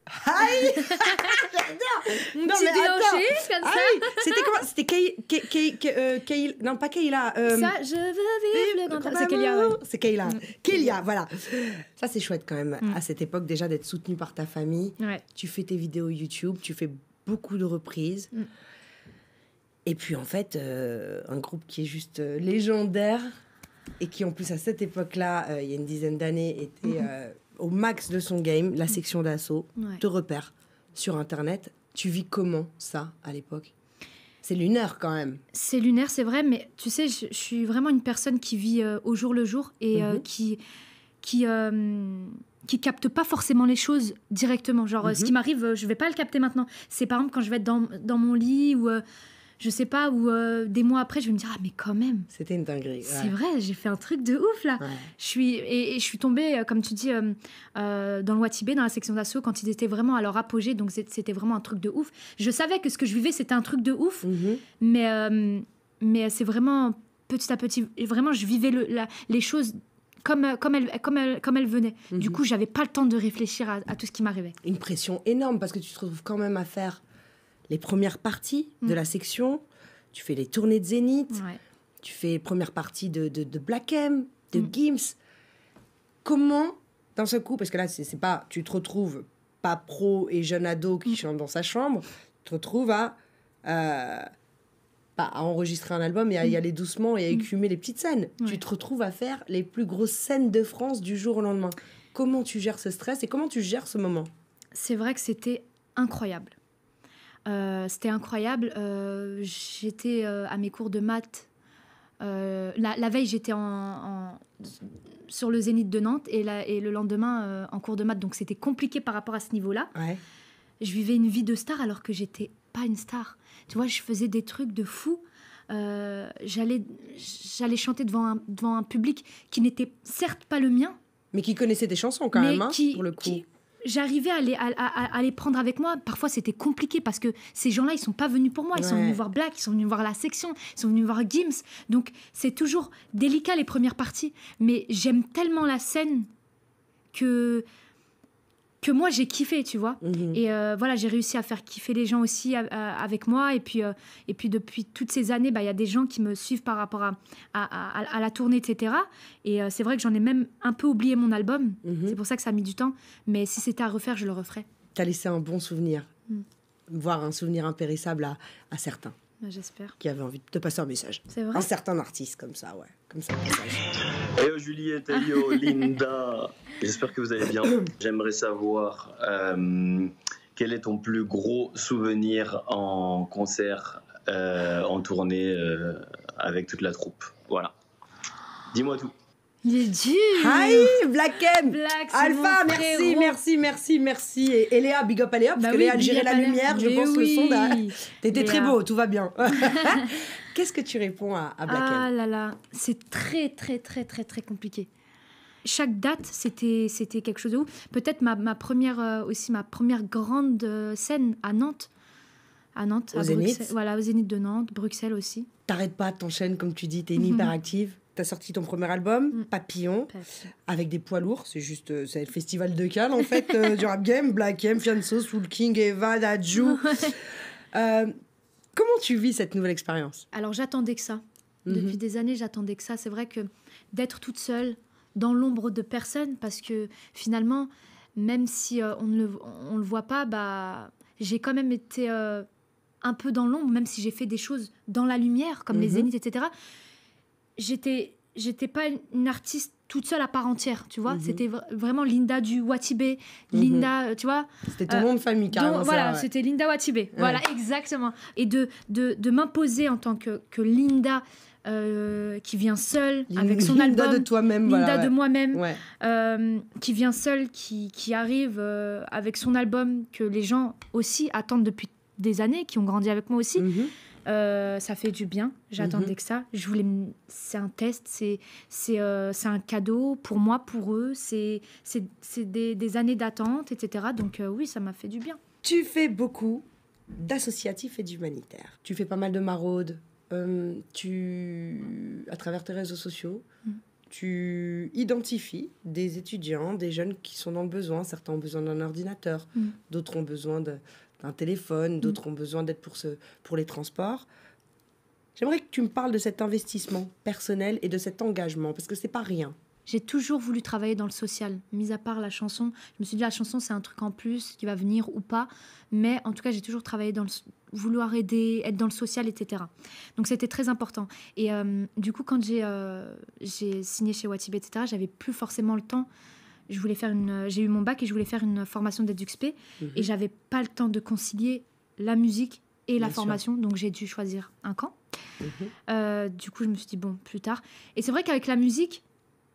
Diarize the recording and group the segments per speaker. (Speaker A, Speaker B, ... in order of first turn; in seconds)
Speaker A: 0.2-7.8, 8.5-18.3, 19.9-23.3, 24.0-33.7, 34.4-35.4, 40.0-40.2, 45.0-45.3, 52.3-53.3, 54.8-55.1, 64.2-64.6, 72.1-72.4, 74.6-77.0, 77.7-81.4, 82.0-85.2, 86.2-94.3, 95.2-104.3, 120.0-120.2, 131.3-133.4, 138.8-139.2, 150.0-150.4, 161.8-162.2, 164.9-166.1, 166.9-169.2, 170.0-173.9, 190.4-202.1, 213.1-213.7, 215.7-220.1, 220.7-227.2, 227.7-228.1, 228.7-230.3, 231.7-232.0, 245.7-246.1, 251.1-251.4, 253.5-253.9, 254.7-256.3, 257.1-257.4, 263.3-265.8, 273.6-273.9, 275.8-276.1, 285.6-293.5, 294.1-304.3, 305.4-309.6, 329.8-330.1, 333.0-333.4, 335.4-335.7
Speaker B: 0.9-1.3, 2.4-4.4, 7.5-10.9, 35.5-40.6, 41.2-49.0, 49.6-52.3, 53.0-64.3, 64.8-74.6, 81.3-81.6, 104.8-106.5, 107.5-111.5, 112.2-114.4, 115.3-119.9, 120.8-131.0, 132.3-146.3, 147.1-147.7, 148.8-164.7, 169.4-170.0, 171.3-171.7, 189.7-191.0, 191.6-193.4, 195.6-198.8, 199.7-200.0, 201.7-204.9, 205.7-211.9, 212.8-215.5, 217.2-217.5, 230.3-242.5, 243.0-246.5, 247.6-273.7, 274.3-285.4, 309.9-326.1, 326.7-335.0, 335.9-339.0
Speaker C: 174.4-187.7, 188.7-189.1